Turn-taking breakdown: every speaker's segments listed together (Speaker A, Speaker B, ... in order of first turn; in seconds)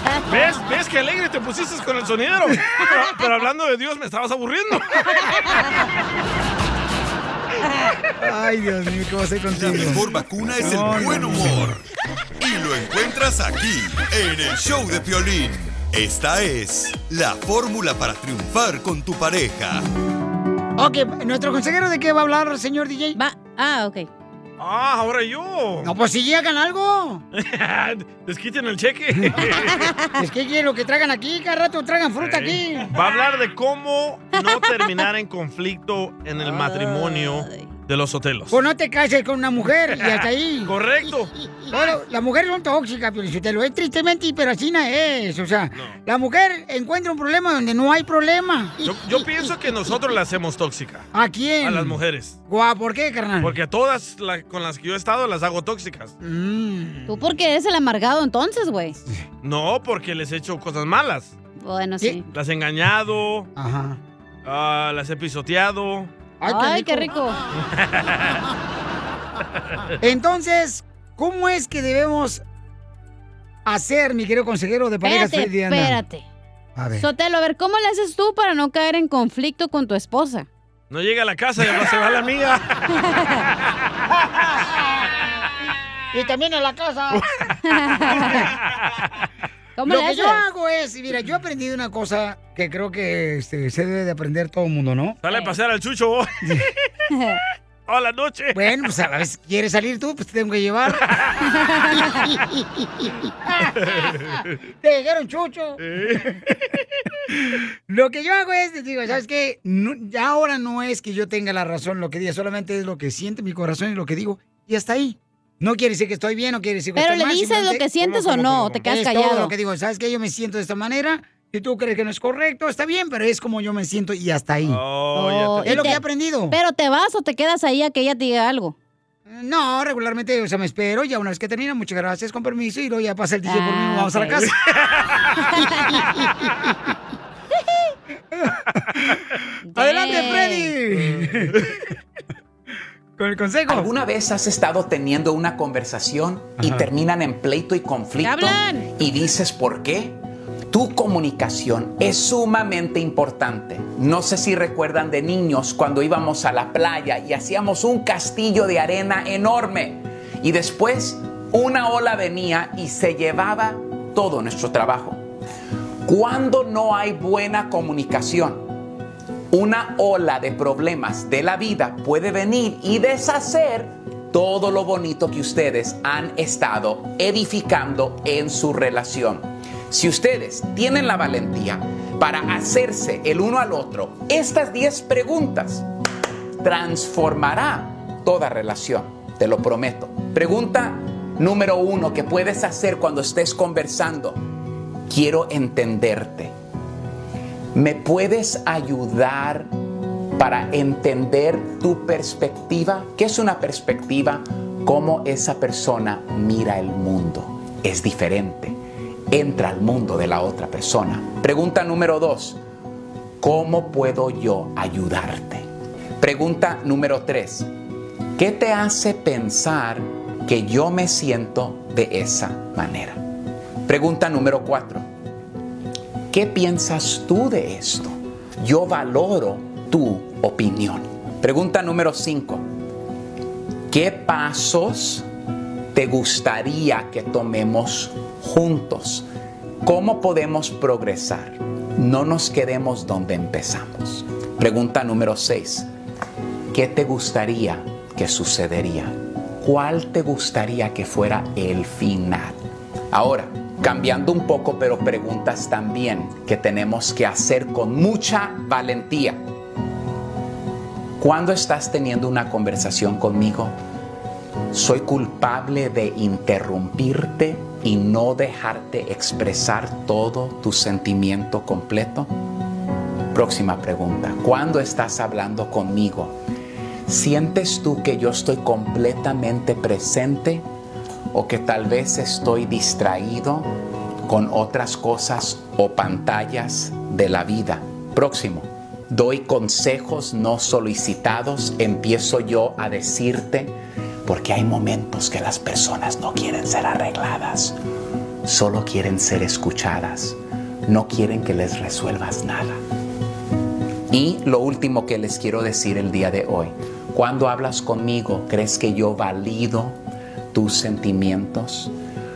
Speaker A: 0.3-5.2, 24.6-25.9, 27.3-29.9, 32.2-38.6, 40.0-41.3, 48.8-51.1, 51.6-52.4, 53.4-56.1, 59.4-61.4, 62.3-63.5, 64.5-66.1, 67.7-68.4, 80.9-82.8, 88.3-89.0, 95.2-96.7, 97.9-98.7, 101.1-101.4, 103.8-104.5, 105.8-106.4, 118.0-118.8, 124.7-126.0, 134.8-135.3, 141.0-141.6
Speaker B: 8.2-11.8, 20.8-23.2, 25.8-27.2, 30.2-32.9, 38.5-40.8, 41.7-48.8, 51.1-52.0, 52.5-53.5, 56.2-57.2, 63.6-64.0, 66.4-67.1, 70.0-72.4, 73.7-76.0, 76.8-77.1, 86.1-87.2, 88.1-88.5, 89.9-95.2, 98.5-101.1, 101.9-104.2, 104.8-106.4, 107.3-117.8, 118.9-124.8, 125.7-126.6, 129.3-134.6, 135.8-136.5, 138.3-139.2, 139.8-141.6, 143.2-143.9
Speaker C: 9.5-11.8, 12.4-19.9
Speaker D: 23.2-24.1, 34.4-35.0, 36.7-37.7, 57.1-59.0, 61.6-62.2, 66.5-67.4, 75.0-76.2, 77.0-80.5, 83.0-83.4, 87.6-88.5, 89.8-90.4, 97.1-97.4, 101.7-102.0, 117.0-119.5, 125.1-128.8, 133.4-134.5, 135.4-135.9, 139.7-140.7, 148.2-148.9
Speaker E: 143.7-150.2, 150.7-165.2, 166.1-168.7, 169.5-185.9, 186.6-194.4, 195.1-196.5, 197.8-199.7, 200.4-208.8, 209.3-212.6, 213.4-215.7, 216.2-217.7, 218.4-223.2, 223.9-225.1, 226.3-232.7, 233.9-235.2, 235.9-239.3, 239.8-245.9, 246.7-252.6, 253.1-259.4, 261.2-263.7, 264.7-272.3, 273.3-276.4, 277.1-280.6, 281.3-283.7, 284.3-297.8, 298.4-302.8, 304.1-310.0, 310.5-311.9